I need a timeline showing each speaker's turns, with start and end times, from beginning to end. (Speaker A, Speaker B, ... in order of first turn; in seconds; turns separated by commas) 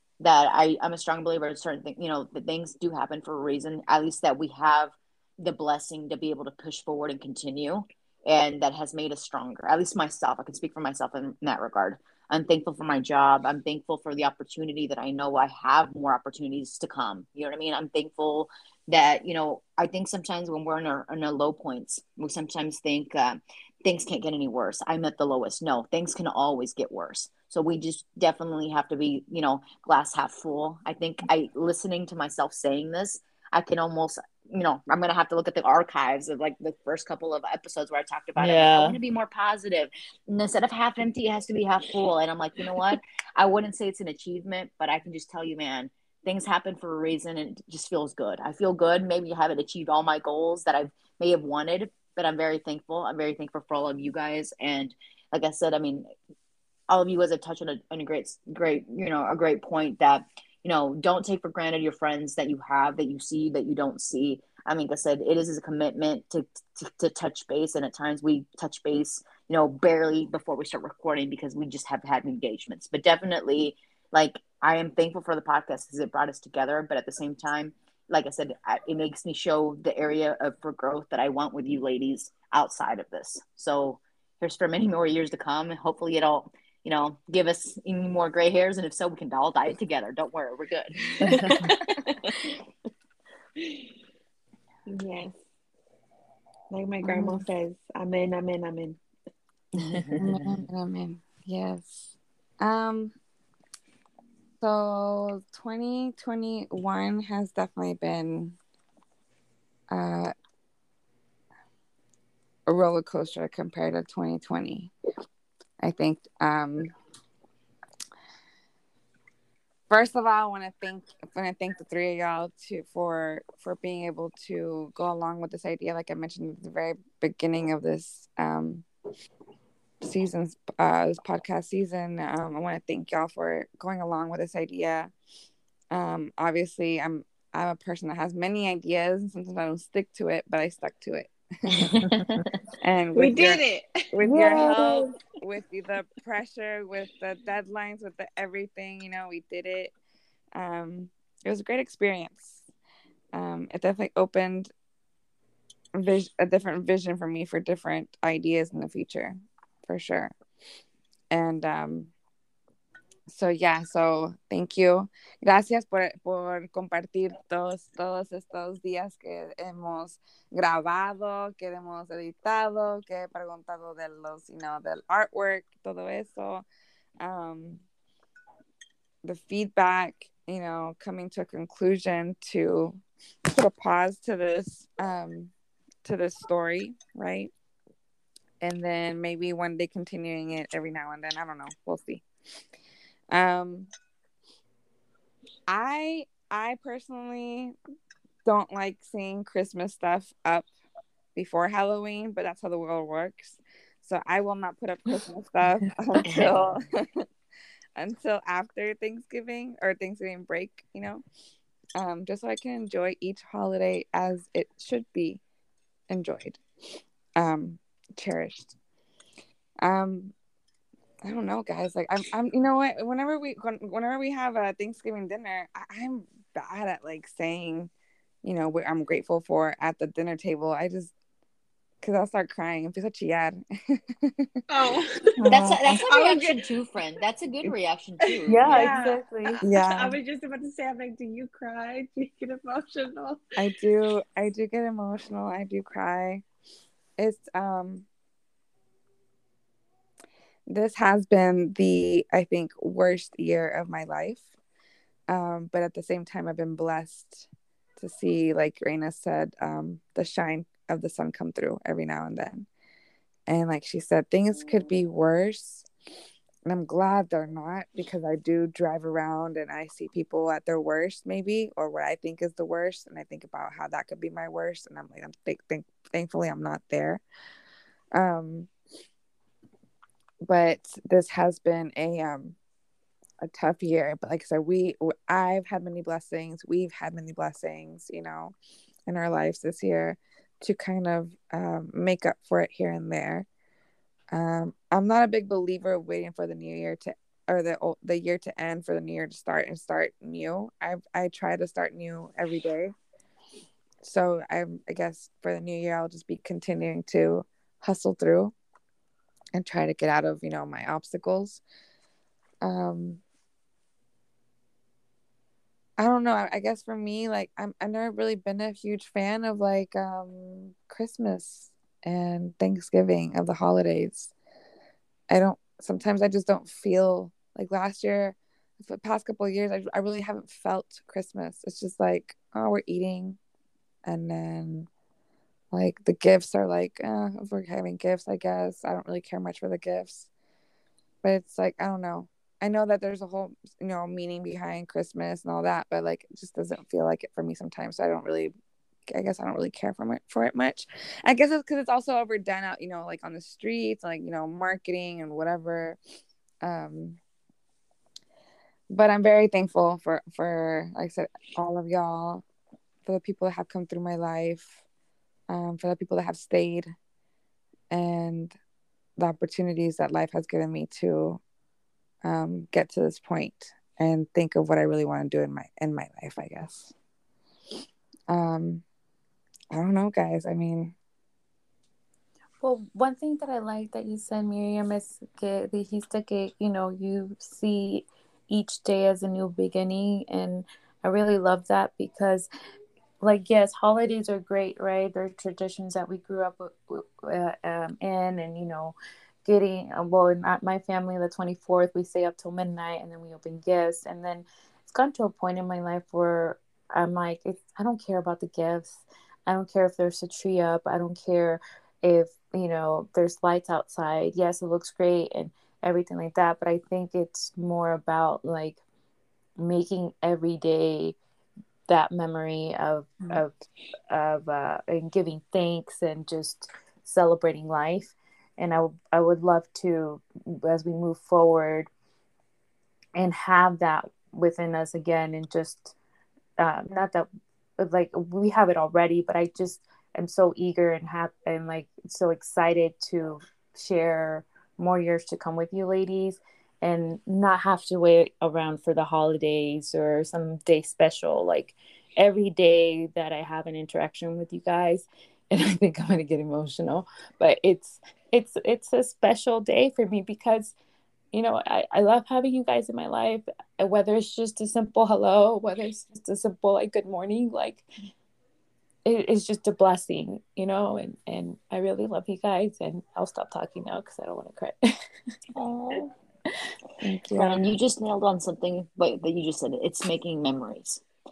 Speaker A: 0.2-56.1, Speaker B: 38.4-39.0, Speaker A: 56.9-92.0, Speaker C: 91.3-92.2, Speaker C: 93.6-93.8, Speaker C: 94.9-95.4, Speaker C: 96.7-99.0, Speaker A: 99.8-100.3, Speaker D: 100.2-103.1, Speaker D: 104.6-108.6, Speaker D: 109.9-110.3, Speaker D: 112.7-114.9, Speaker D: 115.8-116.9, Speaker D: 119.9-128.8, Speaker D: 130.0-135.1, Speaker D: 135.9-142.1, Speaker A: 141.7-142.5, Speaker D: 142.8-143.6, Speaker C: 143.1-145.2, Speaker D: 144.1-149.9, Speaker D: 150.5-152.6, Speaker D: 153.3-154.7, Speaker D: 155.9-160.3, Speaker D: 161.3-162.1, Speaker D: 163.3-176.6, Speaker D: 177.2-177.8, Speaker D: 179.2-185.5, Speaker D: 186.0-187.5, Speaker D: 188.6-192.2, Speaker D: 193.3-193.9, Speaker D: 195.7-197.7, Speaker D: 198.4-200.7, Speaker D: 201.3-207.3, Speaker A: 206.3-206.7, Speaker D: 207.9-211.2, Speaker D: 211.9-215.4, Speaker D: 216.1-216.6, Speaker D: 217.4-218.8, Speaker D: 219.8-220.3, Speaker D: 221.2-227.9, Speaker D: 228.4-231.1, Speaker D: 232.0-234.6, Speaker C: 234.7-235.4, Speaker D: 235.4-235.8, Speaker A: 235.4-239.0, Speaker C: 236.0-236.6, Speaker B: 238.5-239.6, Speaker C: 238.7-243.4, Speaker D: 239.6-240.2, Speaker D: 243.6-246.4, Speaker D: 247.2-248.1, Speaker D: 250.7-254.4, Speaker D: 255.3-262.7, Speaker D: 263.5-265.9, Speaker D: 266.6-277.2, Speaker D: 278.1-278.7, Speaker D: 280.4-282.6, Speaker D: 283.4-288.5, Speaker D: 289.1-293.4, Speaker D: 294.3-302.9, Speaker D: 304.0-308.5, Speaker D: 309.5-311.6, Speaker D: 312.6-313.2, Speaker D: 316.0-324.3, Speaker D: 325.3-333.4, Speaker D: 334.0-334.9, Speaker D: 335.7-340.3, Speaker D: 341.2-348.5, Speaker D: 349.1-356.0, Speaker D: 356.6-357.2, Speaker D: 358.9-362.4, Speaker D: 363.1-364.8, Speaker D: 365.5-366.9, Speaker D: 367.9-368.6, Speaker D: 369.2-371.4, Speaker D: 372.2-376.9, Speaker D: 378.3-378.8, Speaker D: 379.7-380.9, Speaker B: 382.6-392.5, Speaker B: 393.2-418.8, Speaker B: 419.6-421.2, Speaker B: 421.9-423.6, Speaker B: 424.1-431.9, Speaker B: 433.1-435.9, Speaker B: 436.6-437.3, Speaker B: 437.8-460.7, Speaker B: 461.3-467.9, Speaker B: 469.0-474.9, Speaker A: 475.5-476.1, Speaker D: 477.0-477.6, Speaker A: 477.3-481.0